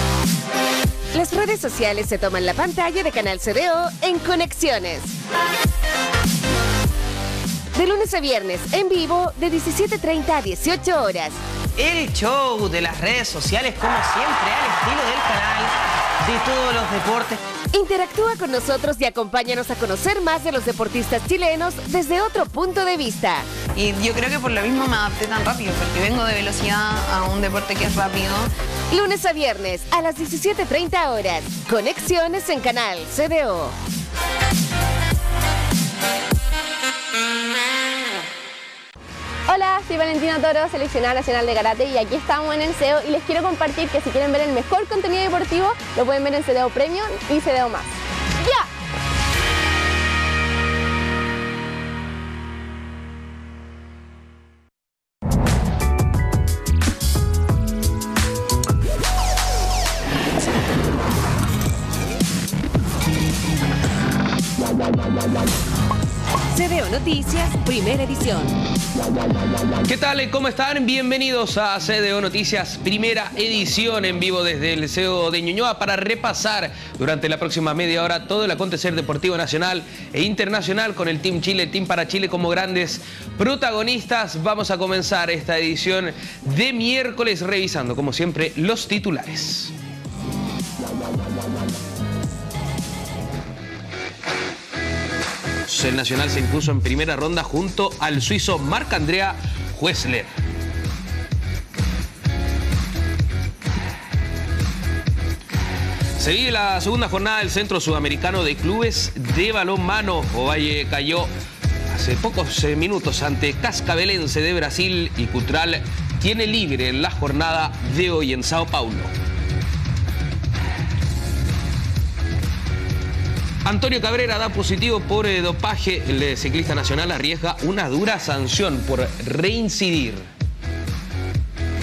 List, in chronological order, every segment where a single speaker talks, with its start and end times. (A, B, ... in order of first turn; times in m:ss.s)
0:01.1-0:05.1 A
0:07.8-0:11.4 A
0:11.8-0:17.4 B
0:17.7-0:23.5 A
0:23.8-0:28.5 C
0:28.9-0:33.8 A
0:39.5-0:48.7 D
1:06.5-1:08.6 A
1:09.9-1:29.7 E
1:35.7-1:40.3 E
1:46.2-1:51.3 E
1:51.9-1:59.1 E
2:03.6-2:10.3 E